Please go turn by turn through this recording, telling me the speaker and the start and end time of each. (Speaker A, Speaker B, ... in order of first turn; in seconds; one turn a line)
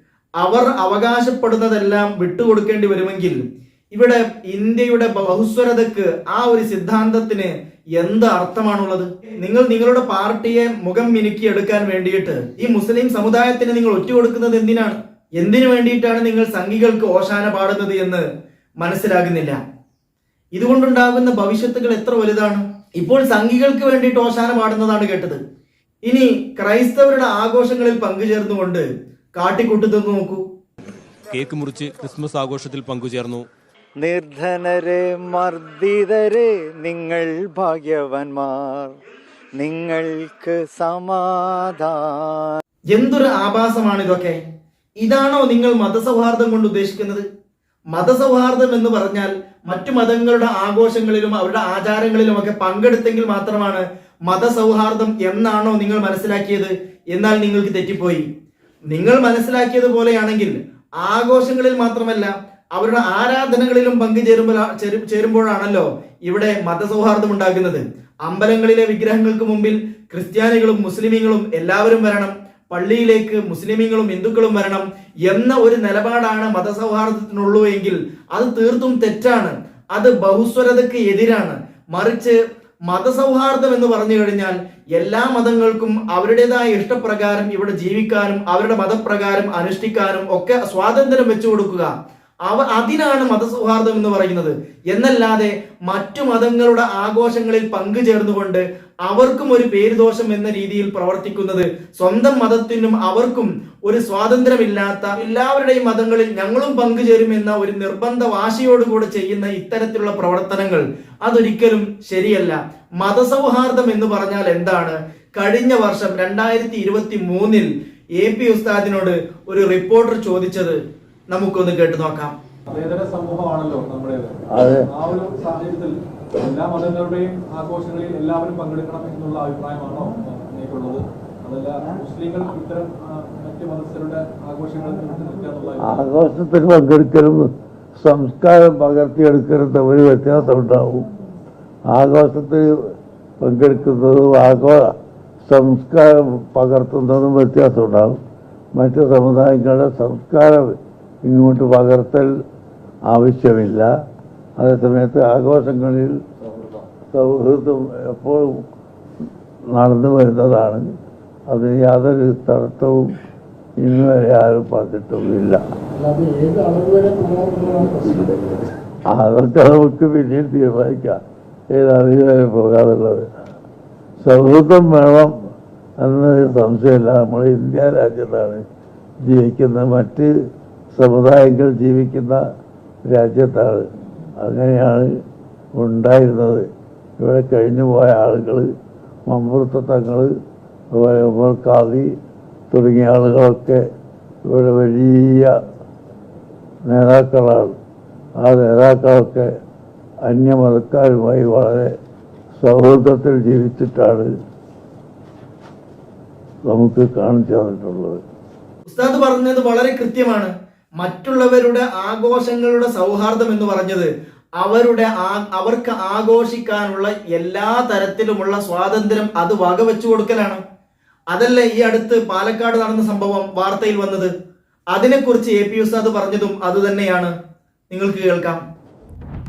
Speaker A: 0.4-3.4
Speaker A: 3.9-18.2
Speaker A: 18.8-19.6
Speaker A: 20.5-25.4
Speaker A: 26.0-30.4
Speaker B: 31.3-33.5
Speaker C: 34.0-39.0
Speaker C: 39.6-42.6
Speaker A: 42.9-44.4
Speaker A: 45.0-47.2
Speaker A: 47.9-58.2
Speaker A: 58.9-91.9
Speaker A: 92.4-120.8
Speaker A: 121.3-122.3
Speaker D: 122.7-124.3
Speaker E: 124.5-124.8
Speaker D: 124.9-136.1
Speaker E: 135.8-137.5
Speaker E: 138.0-141.1
Speaker E: 141.9-144.9
Speaker E: 145.5-148.2
Speaker E: 148.7-152.3
Speaker E: 153.1-153.9
Speaker E: 154.6-156.2
Speaker E: 157.1-158.6
Speaker E: 159.7-160.9
Speaker E: 161.5-163.1
Speaker E: 163.8-165.6
Speaker E: 169.1-171.2
Speaker E: 171.7-173.3
Speaker E: 174.2-175.3
Speaker E: 176.0-178.6
Speaker E: 179.2-180.3
Speaker E: 180.9-182.4
Speaker E: 183.1-183.8
Speaker E: 184.4-185.2
Speaker E: 185.8-186.7
Speaker E: 187.2-188.7
Speaker E: 189.3-190.3
Speaker E: 190.9-192.2
Speaker E: 192.7-193.8
Speaker E: 194.5-195.6
Speaker E: 196.9-197.7
Speaker E: 198.4-199.5
Speaker E: 200.2-201.9
Speaker E: 202.6-204.3
Speaker E: 206.7-208.2
Speaker A: 208.9-220.6
Speaker A: 221.3-224.3
Speaker A: 224.9-227.3
Speaker A: 227.9-228.6